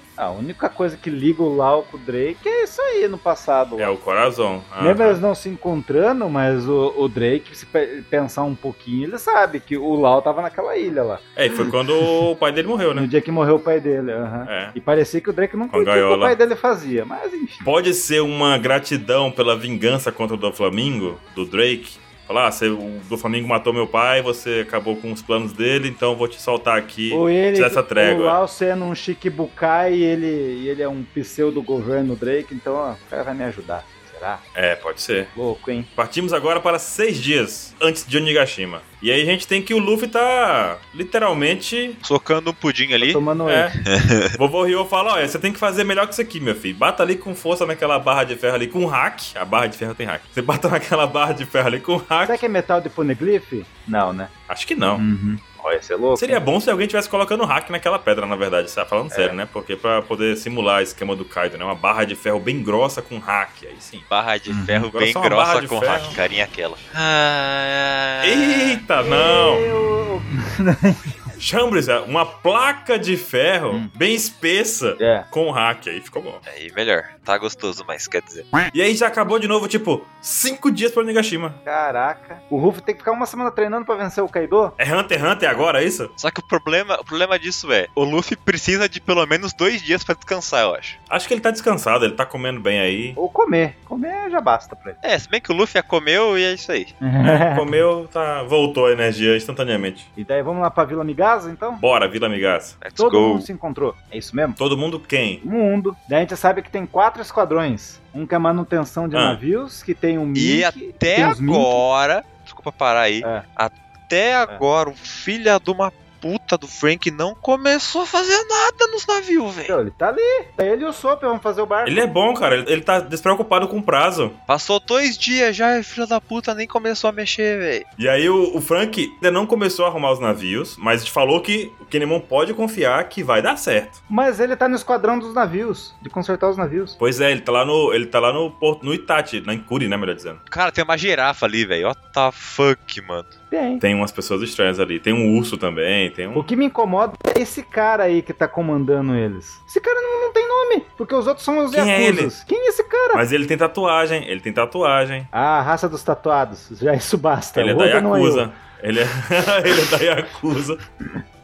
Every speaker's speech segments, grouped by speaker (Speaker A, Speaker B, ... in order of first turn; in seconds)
Speaker A: 0.2-3.9, 4.8-11.7, 12.9-17.7, 27.1-34.4, 35.3-35.9, 43.0-43.7, 52.2-54.3, 55.0-56.4, 59.1-59.4, 64.5-64.9, 69.0-71.1, 75.0-75.3, 81.6-84.8, 93.2-95.0, 97.0-97.8, 100.2-101.8, 103.0-104.6, 105.4-111.8, 119.7-122.1, 134.1-137.0, 143.5-143.8, 146.3-153.2, 155.3-158.5
Speaker B: 3.8-5.2, 11.3-13.1, 14.4-14.7, 15.7-16.4, 17.6-28.4, 34.5-35.3, 36.0-42.0, 43.5-43.7, 44.3-52.4, 54.5-55.0, 56.1-64.1, 64.9-66.2, 68.2-69.7, 71.4-76.4, 78.7-81.6, 84.8-86.1, 91.1-93.2, 97.2-100.1, 101.8-102.8, 104.6-105.4, 109.1-109.4, 121.8-124.4, 128.0-134.0, 137.0-140.4, 143.8-146.5, 151.7-152.3, 153.1-155.3, 157.6-160.8
Speaker C: 42.0-43.2, 43.8-44.4, 64.1-68.8, 76.5-78.5, 86.2-91.0, 95.0-96.9, 102.8-103.5, 110.3-119.8, 124.5-127.8, 140.5-143.3